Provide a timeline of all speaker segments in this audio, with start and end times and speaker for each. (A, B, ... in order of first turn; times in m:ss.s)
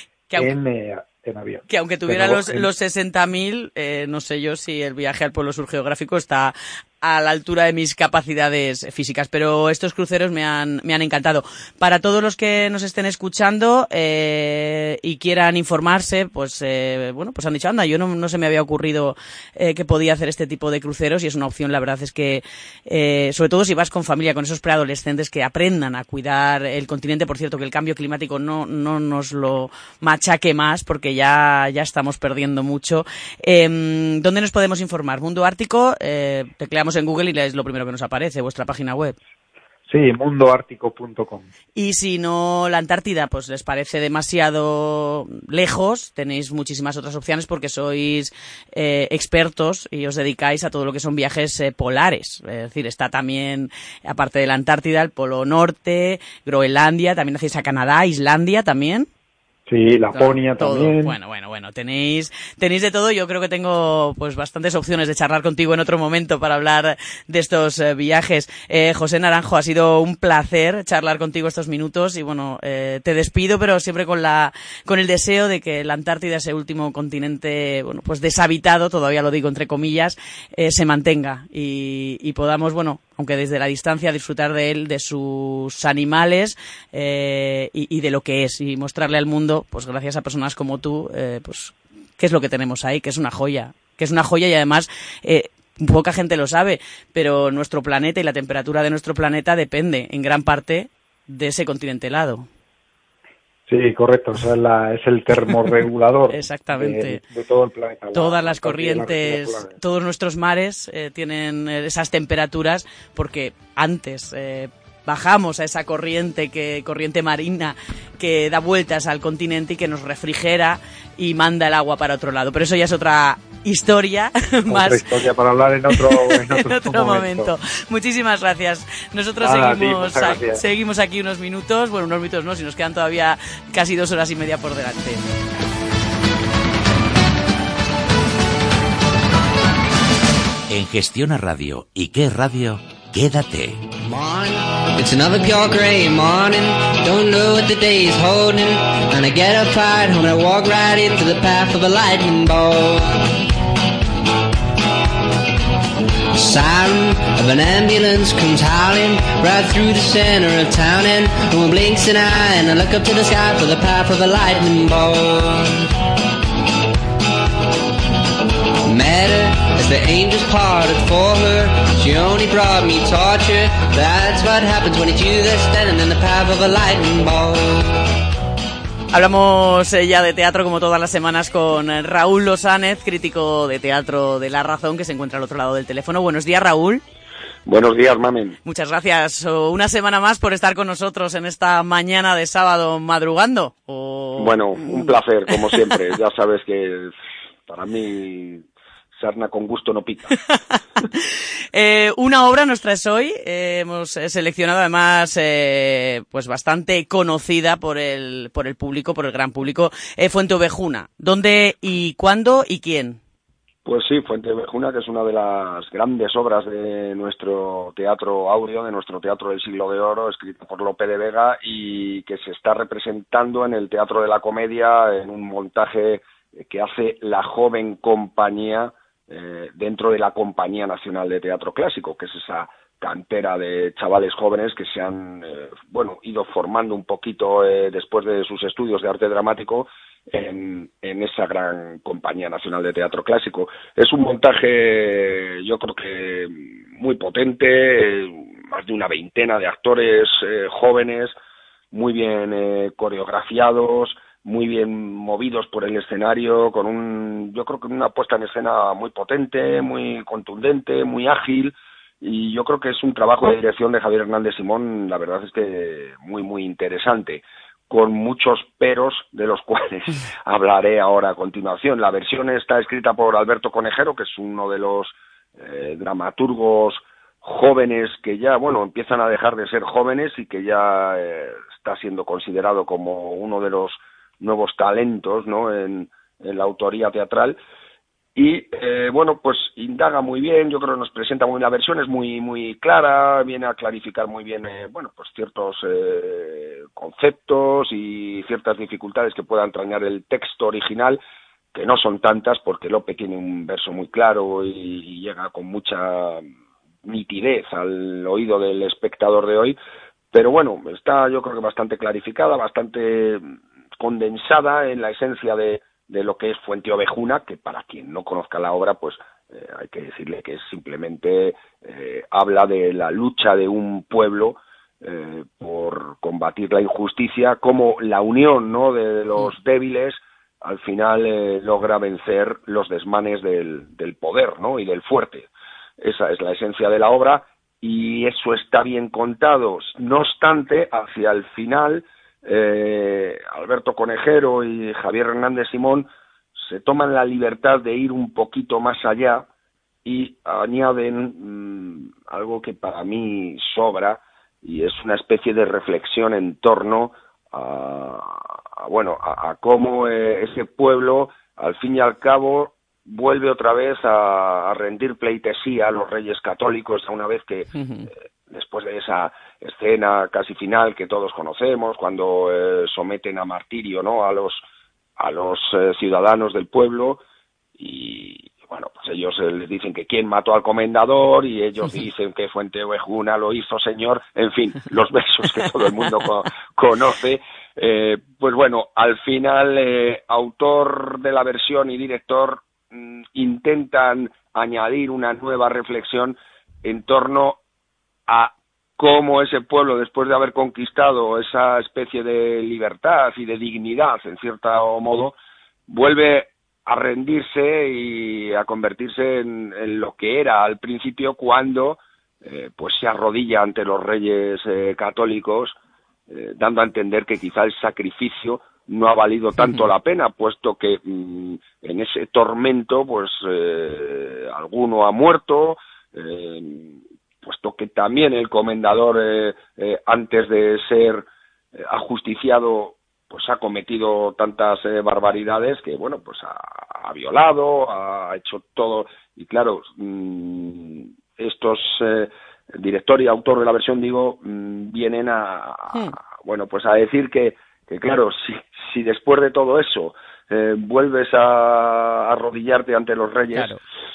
0:00.3-0:00.5 A
0:00.3-0:02.7 B
0:01.7-0:39.2 A
0:39.9-0:41.5 B
0:41.8-0:59.1 A
0:59.7-1:01.2 B
1:00.1-1:42.5 A
1:43.7-1:49.8 B
1:46.3-1:47.2 A
1:48.1-2:05.1 A
2:04.7-2:07.5 B
2:05.9-2:15.2 A
2:09.4-2:10.6 B
2:20.7-2:23.8 C
2:24.0-2:33.1 D
2:36.3-2:45.7 D
2:48.8-2:57.9 D
2:59.1-3:07.0 A
3:07.6-3:08.6 E
3:08.6-3:15.2 A
3:14.4-3:17.1 E
3:17.7-3:18.6 E
3:19.2-3:20.3 E
3:20.5-3:33.2 A
3:33.8-4:11.4 E
4:11.9-4:47.6 E
4:48.4-5:01.2 E
5:01.7-5:06.4 E
5:07.0-5:09.8 E
5:10.3-5:13.4 E
5:14.0-5:35.5 E
5:36.0-5:49.4 E
5:50.0-6:07.7 E
6:07.7-6:08.1 A
6:08.5-6:14.6 E
6:15.2-6:17.2 E
6:17.8-6:37.6 E
6:38.3-6:45.4 E
6:45.9-6:55.8 E
6:56.3-7:33.8 E
6:59.6-6:59.8 A
7:33.5-7:33.8 A